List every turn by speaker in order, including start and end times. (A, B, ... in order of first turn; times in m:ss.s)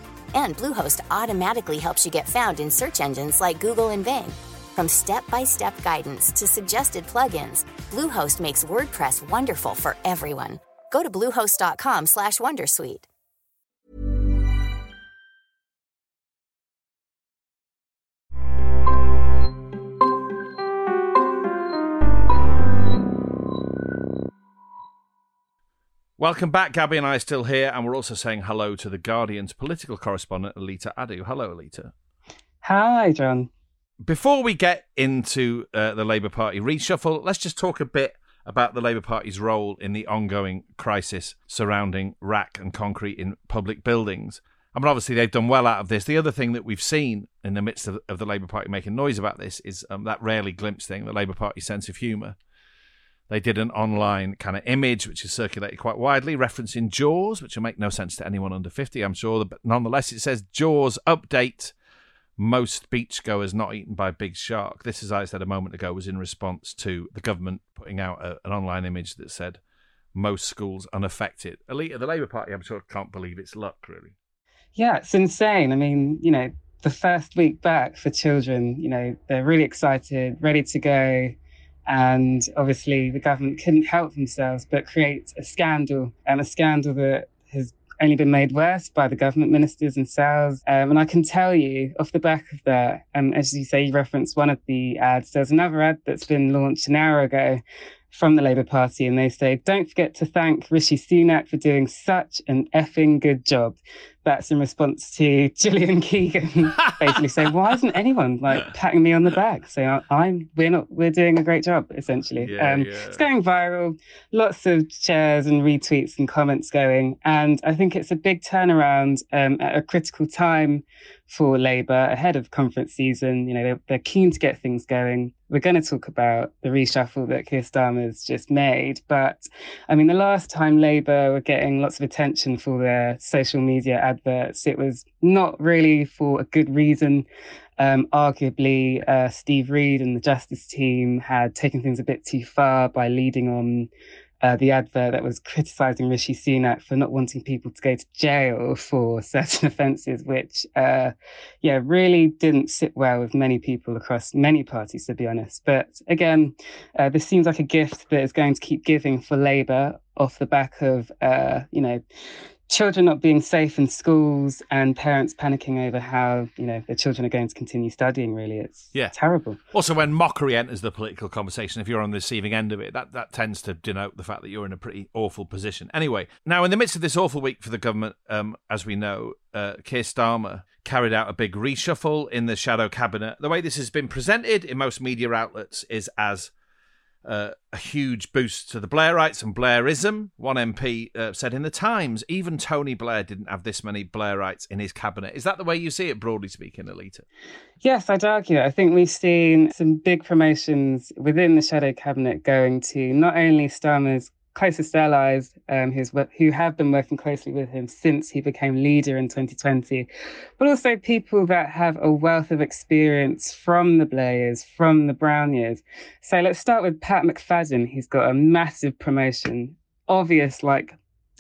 0:00.3-0:13.1 A
0:26.2-0:31.9 B
0:32.6-0:33.5 C
0:34.0-0:52.4 B
0:53.3-1:01.7 B
1:02.4-1:09.6 B
1:10.1-1:14.1 B
1:14.7-1:21.4 C
1:21.9-2:17.2 C
1:46.8-1:47.2 B
1:52.4-1:53.2 B
2:17.8-2:23.9 C
2:24.4-2:42.0 C
2:42.7-2:49.6 C
2:49.7-3:06.5 B
3:07.2-3:17.2 B
3:17.8-3:30.1 C
3:30.6-3:41.0 C